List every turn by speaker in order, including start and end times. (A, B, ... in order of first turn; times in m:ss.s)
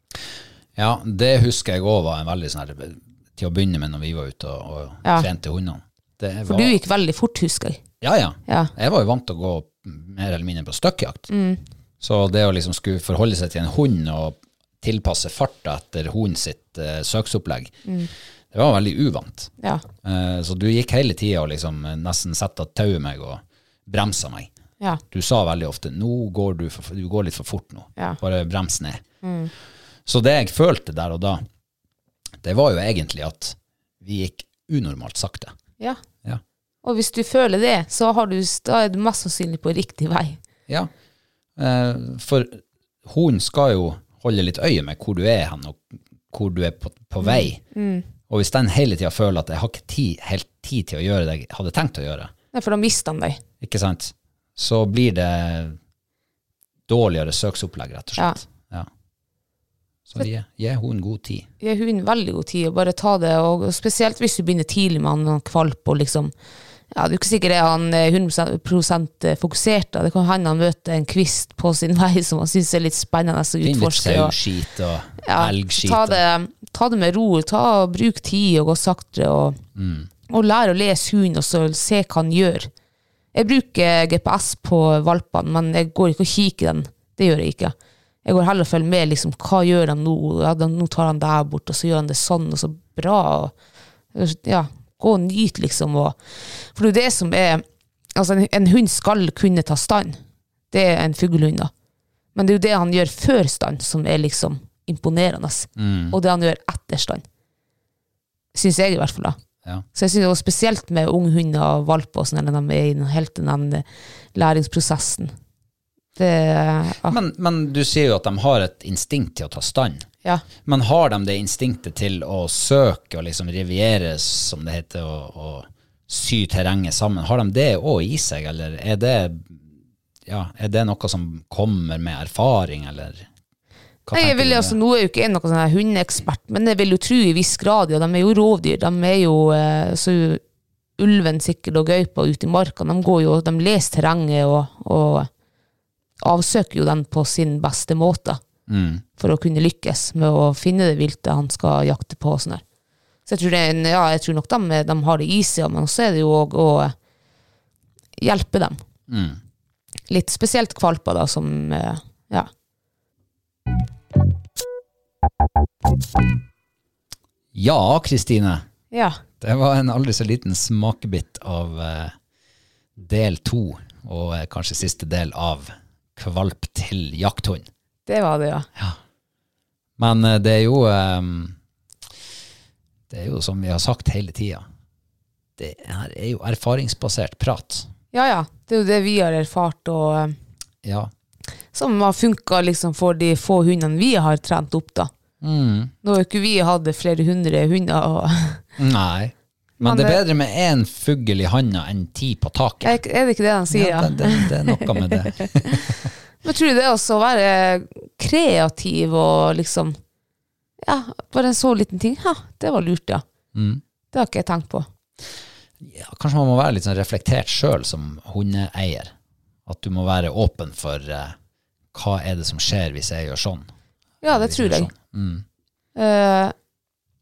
0:00.8-0:06.8 A
0:06.5-0:07.8 B
0:08.0-0:11.3 A
0:08.5-0:08.7 B
0:11.3-0:11.6 B
0:12.0-0:17.7 A
0:18.5-0:19.5 A
0:20.0-0:24.5 A
0:25.1-0:29.0 A
0:29.2-0:29.5 B
0:30.1-0:31.4 A
0:32.4-0:35.5 A
0:36.8-0:40.4 B
0:41.6-0:47.6 A
0:47.2-0:48.0 B
0:48.3-0:52.3 A
0:52.5-0:53.4 B
0:53.6-0:55.8 A
0:56.9-0:58.9 A
1:00.1-1:01.4 A
1:01.6-1:06.3 B
1:06.9-1:14.3 B
1:13.6-1:16.2 A
1:15.2-1:19.6 B
1:19.8-1:20.1 A
1:20.3-1:22.7 B
1:23.3-1:33.5 B
1:34.1-1:37.6 B
1:38.2-1:40.2 B
1:40.7-1:41.7 B
1:42.3-1:47.2 B
1:45.8-1:46.2 A
1:48.5-1:49.4 B
1:49.9-1:55.3 B
1:56.2-1:57.2 B
1:57.0-2:00.0 A
2:00.6-2:09.6 A
2:10.3-2:13.2 A
2:14.1-2:14.8 A
2:14.1-2:20.4 B
2:21.0-2:25.3 B
2:26.2-2:28.4 B
2:28.7-2:29.0 A
2:29.2-2:32.6 B
2:33.2-2:36.9 B
2:38.2-2:38.8 B
2:39.1-2:39.4 A
2:40.1-2:42.5 B
2:47.5-2:48.6 A
2:48.9-2:49.2 B
2:49.4-2:52.1 A
2:53.0-2:57.6 A
2:58.0-2:58.7 B
3:00.0-3:01.5 A
3:03.1-3:04.6 A
3:05.6-3:07.9 A
3:08.1-3:10.3 B
3:10.8-3:11.1 A
3:11.7-3:15.1 B
3:15.4-3:15.9 A
3:16.0-3:18.6 B
3:18.8-3:23.0 A
3:19.8-3:20.2 B
3:22.8-3:24.9 B
3:23.7-3:25.9 A
3:26.4-3:30.0 B
3:30.8-3:33.2 B
3:33.5-3:33.8 A
3:34.1-3:34.9 B
3:35.8-3:39.1 A
3:39.7-3:41.3 A
3:41.9-3:43.7 A
3:44.2-3:44.9 B
3:44.2-3:45.4 A
3:46.0-3:46.5 B